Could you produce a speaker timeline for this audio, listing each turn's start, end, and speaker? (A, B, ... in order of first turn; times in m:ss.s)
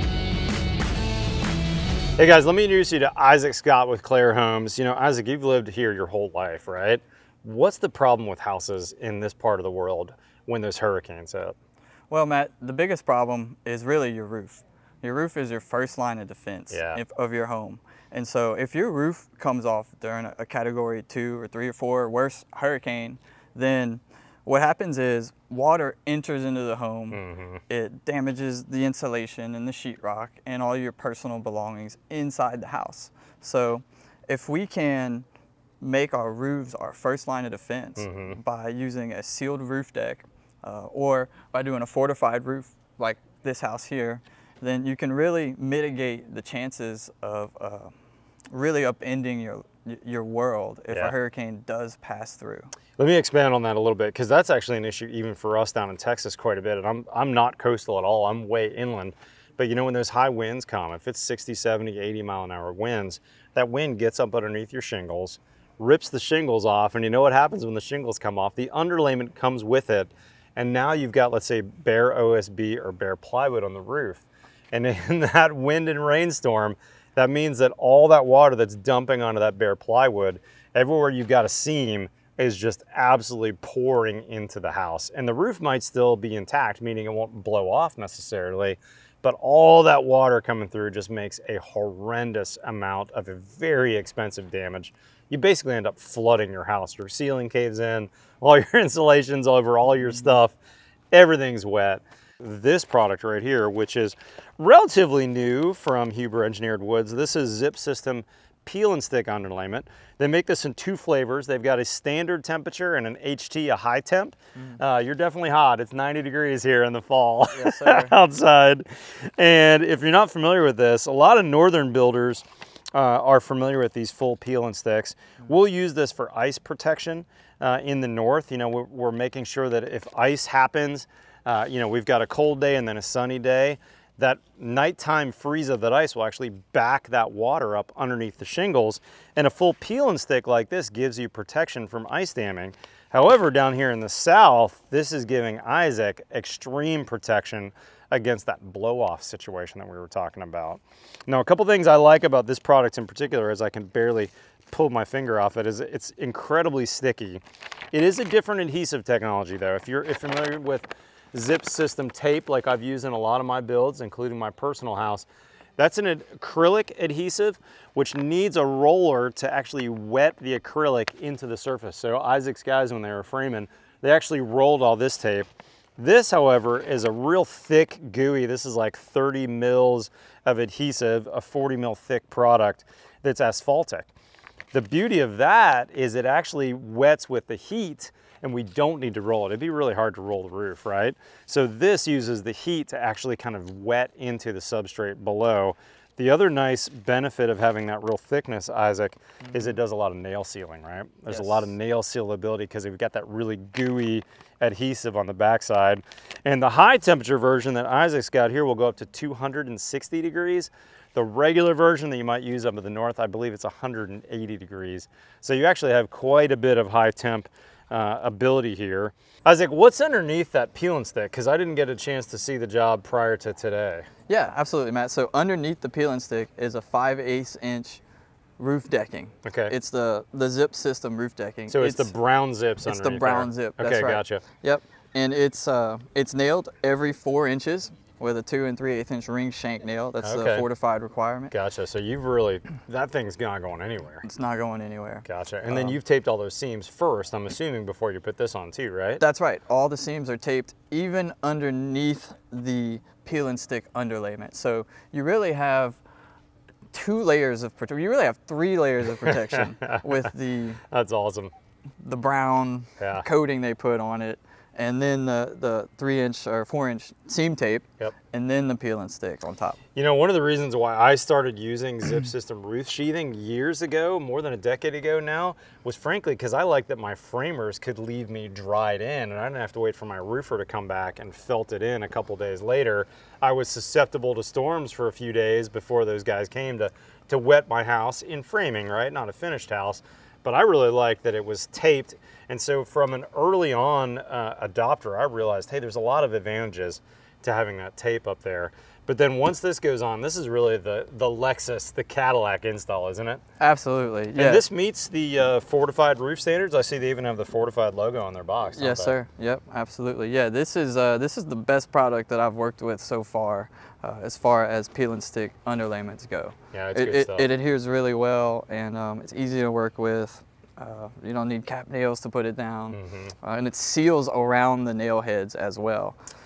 0:02.2-0:11.6 A
0:12.1-0:35.2 B
0:16.7-0:17.0 A
0:27.1-0:27.6 A
0:35.8-0:47.9 B
0:38.0-0:38.4 A
0:48.5-0:52.7 B
0:53.0-1:40.6 A
1:41.1-2:37.4 A
1:57.5-1:58.1 B
2:37.9-2:45.3 A
2:45.8-3:04.1 A
3:04.7-3:44.1 A
3:19.5-3:19.8 B
3:21.3-3:21.7 B
3:44.3-3:48.0 B
3:48.6-3:52.1 B
3:49.4-3:49.7 A
3:51.7-3:54.4 A
3:52.8-4:01.5 B
4:00.2-4:00.7 A
4:01.5-4:04.2 A
4:04.2-4:06.0 B
4:05.2-4:09.2 A
4:09.2-4:16.0 B
4:16.9-4:20.8 B
4:19.3-4:20.0 A
4:20.9-4:21.5 A
4:22.0-4:29.8 B
4:23.0-4:23.3 A
4:30.0-5:03.4 A
5:03.6-5:04.6 B
5:04.4-5:09.2 A
5:08.7-5:26.2 B
5:16.7-5:17.5 A
5:22.9-5:23.4 A